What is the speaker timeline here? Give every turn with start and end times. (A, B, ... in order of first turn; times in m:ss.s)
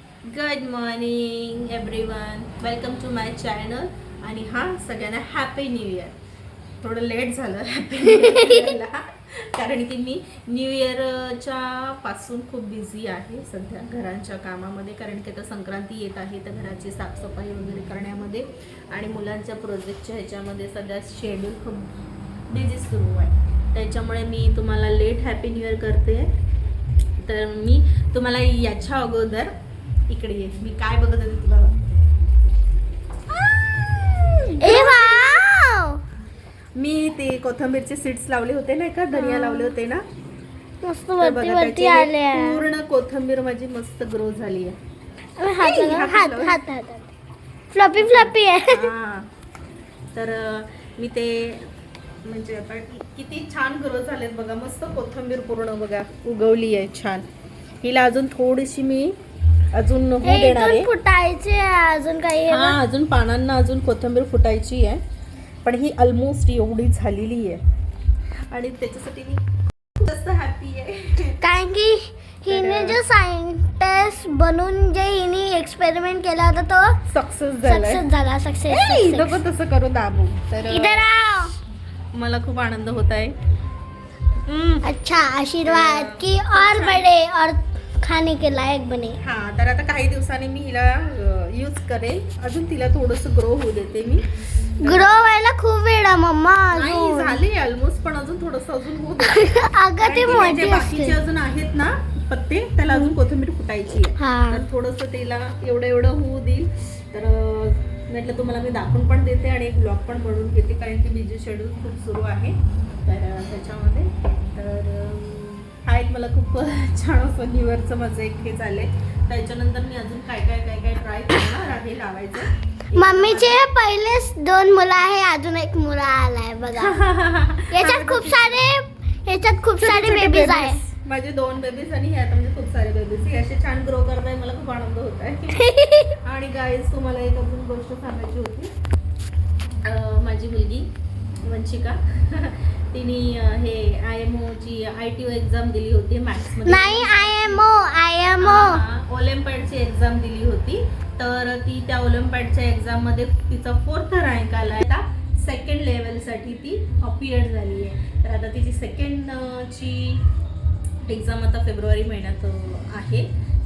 0:00.2-0:06.1 A
0:06.8-0:21.9 A
0:08.2-0:08.5 B
0:22.5-0:26.3 A
0:27.2-0:29.5 A
0:30.1-0:32.0 A
0:34.2-0:35.3 A
0:34.6-0:36.0 B
0:36.8-0:40.0 A
0:39.1-0:39.7 B
0:40.8-0:42.7 B
0:41.2-0:44.8 A
0:45.4-0:47.1 B
0:45.6-0:46.6 A
0:47.7-0:48.8 B
0:48.0-0:49.3 A
0:50.1-0:51.6 A
0:52.2-0:57.2 A
0:57.8-0:59.1 A
0:59.7-1:00.9 A
1:00.2-1:02.8 B
1:02.5-1:05.0 A
1:05.6-1:07.6 A
1:08.5-1:09.4 A
1:10.0-1:11.4 A
1:11.4-1:17.0 B
1:12.5-1:13.0 A
1:17.1-1:18.0 A
1:17.6-1:19.4 B
1:18.7-1:21.0 A
1:20.7-1:21.5 B
1:22.1-1:23.3 A
1:24.5-1:24.9 A
1:24.8-1:29.2 B
1:25.6-1:27.1 A
1:29.2-1:34.2 A
1:34.8-1:35.1 A
1:34.8-1:37.4 B
1:36.7-2:03.6 A
1:39.2-1:41.2 B
1:44.2-1:44.6 B
2:03.0-2:07.0 B
2:06.8-2:08.6 A
2:07.7-2:10.8 B
2:09.8-2:15.6 A
2:15.6-2:16.1 B
2:16.2-2:18.7 A
2:19.8-2:20.8 A
2:21.4-2:27.6 A
2:26.6-2:28.8 B
2:28.4-2:40.2 A
2:41.0-2:43.3 A